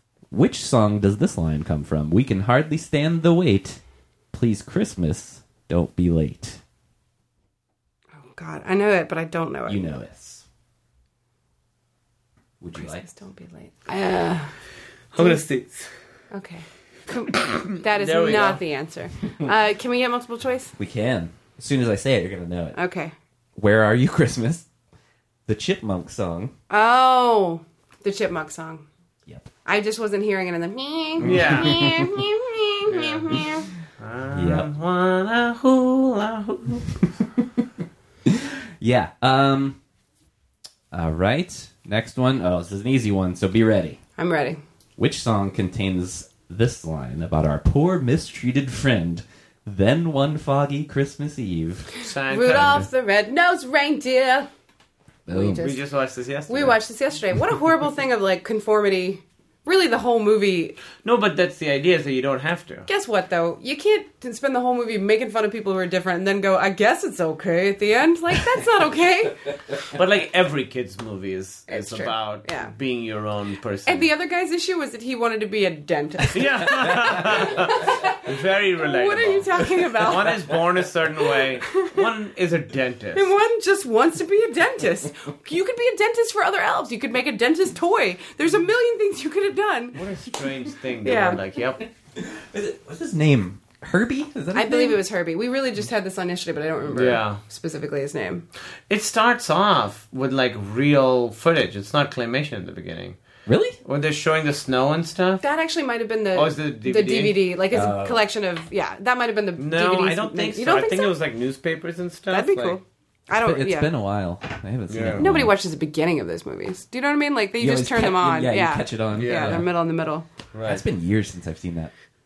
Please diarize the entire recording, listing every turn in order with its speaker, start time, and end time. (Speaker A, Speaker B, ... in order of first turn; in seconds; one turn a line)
Speaker A: 0.3-3.8
Speaker A: 4.3-6.6
Speaker B: 8.3-9.8
Speaker A: 9.7-10.4
Speaker A: 12.6-13.1
Speaker B: 12.8-14.5
Speaker C: 15.1-15.9
Speaker B: 16.3-20.7
Speaker C: 17.8-18.6
Speaker A: 20.8-22.8
Speaker B: 22.7-23.1
Speaker A: 23.6-24.6
Speaker A: 25.4-26.5
Speaker B: 26.7-28.9
Speaker B: 29.6-33.7
Speaker C: 31.2-31.9
Speaker A: 31.2-32.2
Speaker C: 32.9-33.5
Speaker C: 34.0-37.0
Speaker A: 34.3-34.7
Speaker A: 38.2-39.8
Speaker A: 40.9-44.0
Speaker B: 44.2-44.6
Speaker A: 45.0-51.9
Speaker C: 52.0-52.9
Speaker B: 52.2-54.5
Speaker A: 55.3-55.7
Speaker B: 55.3-55.8
Speaker C: 55.5-56.8
Speaker B: 56.5-60.8
Speaker C: 61.0-62.9
Speaker B: 62.9-69.5
Speaker C: 69.9-74.1
Speaker B: 71.7-72.7
Speaker B: 73.8-80.6
Speaker C: 76.3-83.3
Speaker A: 76.8-77.5
Speaker B: 81.6-82.0
Speaker B: 83.1-90.0
Speaker C: 89.9-91.9
Speaker B: 91.0-91.4
Speaker A: 92.1-95.0
Speaker B: 94.5-98.4
Speaker C: 96.9-97.4
Speaker C: 98.9-103.2
Speaker A: 103.5-103.8
Speaker C: 103.8-105.4
Speaker B: 105.4-111.2
Speaker C: 106.3-107.5
Speaker A: 107.7-108.2
Speaker C: 109.5-112.8
Speaker B: 112.3-113.9
Speaker A: 113.3-115.5
Speaker C: 114.9-115.3
Speaker B: 115.2-120.2
Speaker A: 117.6-119.7
Speaker C: 119.1-119.7
Speaker C: 120.5-120.8
Speaker A: 120.6-121.9